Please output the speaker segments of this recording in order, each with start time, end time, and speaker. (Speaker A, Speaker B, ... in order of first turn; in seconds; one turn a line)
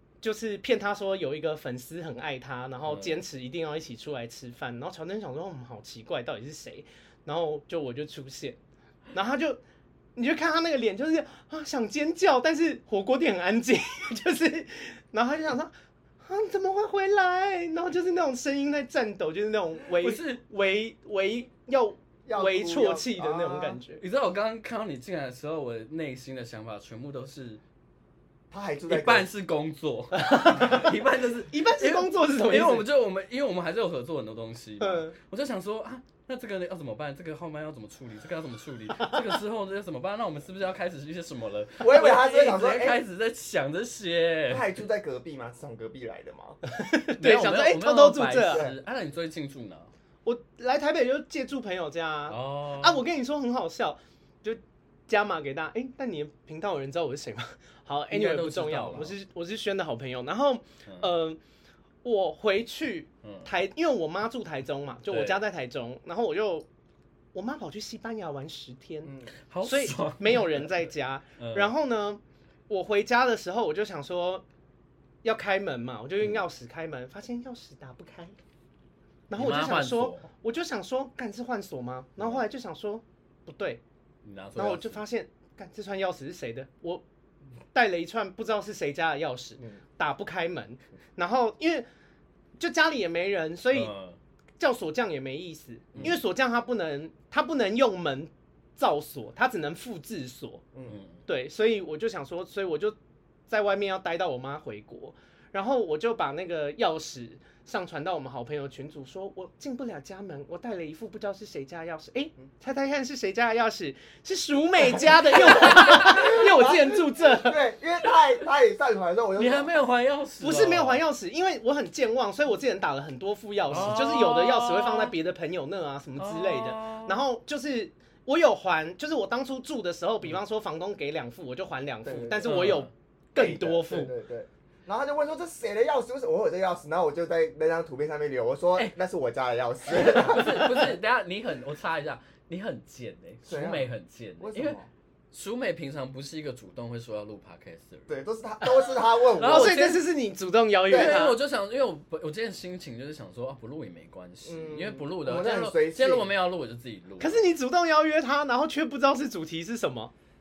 Speaker A: 0.2-8.6
Speaker B: 2.9-3.2
Speaker A: 9.1-9.6
Speaker A: 10.2-15.7
Speaker A: 16.2-24.0
Speaker B: 20.0-20.4
Speaker C: 22.2-23.8
Speaker B: 24.0-27.6
Speaker C: 28.5-29.3
Speaker B: 28.9-44.7
Speaker A: 30.1-30.9
Speaker A: 31.5-32.9
Speaker A: 34.8-35.1
Speaker A: 39.0-39.3
Speaker C: 41.8-43.0
Speaker C: 44.5-46.6
Speaker A: 46.7-48.6
Speaker B: 47.2-49.9
Speaker C: 48.5-48.8
Speaker A: 50.2-61.4
Speaker B: 52.3-53.0
Speaker B: 58.1-59.2
Speaker A: 62.0-66.7
Speaker B: 65.1-65.4
Speaker A: 67.3-69.1
Speaker C: 69.0-69.3
Speaker B: 69.5-70.7
Speaker A: 69.6-74.4
Speaker B: 71.4-71.7
Speaker A: 75.2-78.4
Speaker A: 79.3-83.8
Speaker B: 79.3-80.3
Speaker B: 84.2-85.0
Speaker A: 84.5-87.0
Speaker A: 87.7-91.8
Speaker A: 92.6-93.9
Speaker B: 93.7-94.2
Speaker A: 94.6-100.6
Speaker B: 95.9-96.2
Speaker B: 100.9-101.2
Speaker A: 101.2-103.0
Speaker A: 103.5-117.6
Speaker B: 115.5-116.4
Speaker C: 115.9-119.7
Speaker B: 119.3-121.0
Speaker A: 120.4-134.1
Speaker B: 123.7-125.1
Speaker B: 126.2-127.2
Speaker C: 132.0-132.7
Speaker B: 132.4-132.9
Speaker C: 133.3-141.0
Speaker B: 139.9-144.8
Speaker C: 143.4-144.9
Speaker B: 145.3-148.1
Speaker C: 148.1-149.8
Speaker B: 149.3-150.0
Speaker A: 149.4-151.4
Speaker C: 150.9-151.2
Speaker B: 150.9-157.4
Speaker C: 154.4-156.3
Speaker A: 157.2-160.1